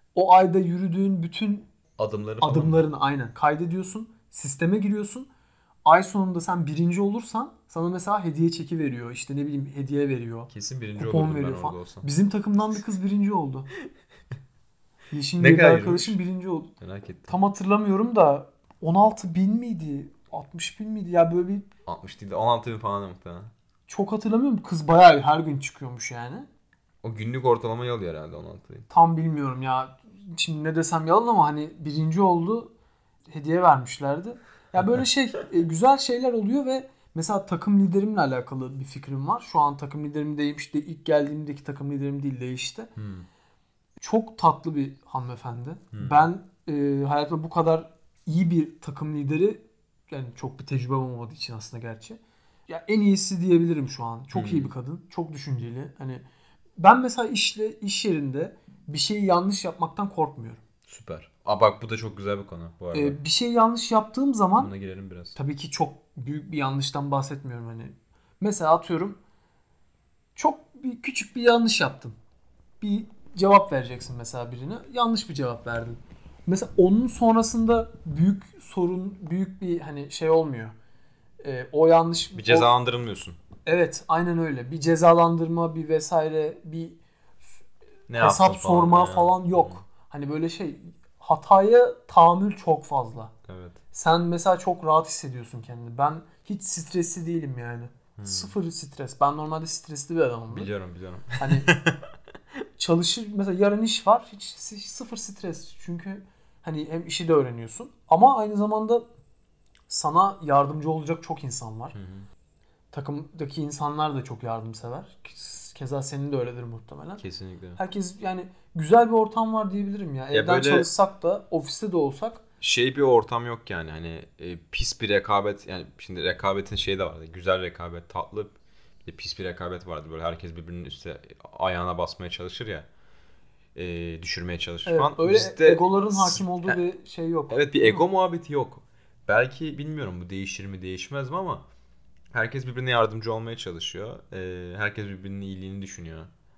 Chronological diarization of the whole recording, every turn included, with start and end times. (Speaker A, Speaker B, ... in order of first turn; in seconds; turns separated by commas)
Speaker A: 0.1-1.7, Speaker B: 2.0-2.8, Speaker A: 2.4-5.3, Speaker A: 5.9-13.7, Speaker B: 10.5-12.1, Speaker A: 15.1-16.7, Speaker B: 15.4-16.2, Speaker B: 16.8-17.4, Speaker A: 17.3-21.7, Speaker B: 21.9-23.5, Speaker A: 23.9-26.5, Speaker B: 27.0-28.9, Speaker A: 28.9-32.7, Speaker A: 33.3-42.9, Speaker B: 43.0-43.3, Speaker A: 44.0-56.2, Speaker B: 45.9-46.3, Speaker B: 54.3-54.7, Speaker A: 56.8-60.6, Speaker B: 60.9-63.2, Speaker A: 62.9-64.7, Speaker B: 64.6-65.4, Speaker A: 65.4-69.2, Speaker A: 70.4-72.2, Speaker A: 72.8-80.7, Speaker A: 81.4-82.7, Speaker B: 82.4-83.4, Speaker A: 83.7-87.6, Speaker B: 88.1-89.8, Speaker A: 88.2-93.3, Speaker B: 93.5-93.8, Speaker A: 93.9-100.7, Speaker B: 98.2-98.5, Speaker B: 100.5-102.0, Speaker A: 101.4-101.7, Speaker A: 102.8-109.1, Speaker A: 109.9-112.0, Speaker B: 111.9-112.3, Speaker A: 112.9-117.2, Speaker B: 117.2-117.8, Speaker A: 117.8-122.4, Speaker B: 120.3-120.9, Speaker B: 122.6-132.9, Speaker B: 133.8-136.8, Speaker A: 134.9-138.0, Speaker B: 137.5-141.7, Speaker B: 142.3-146.3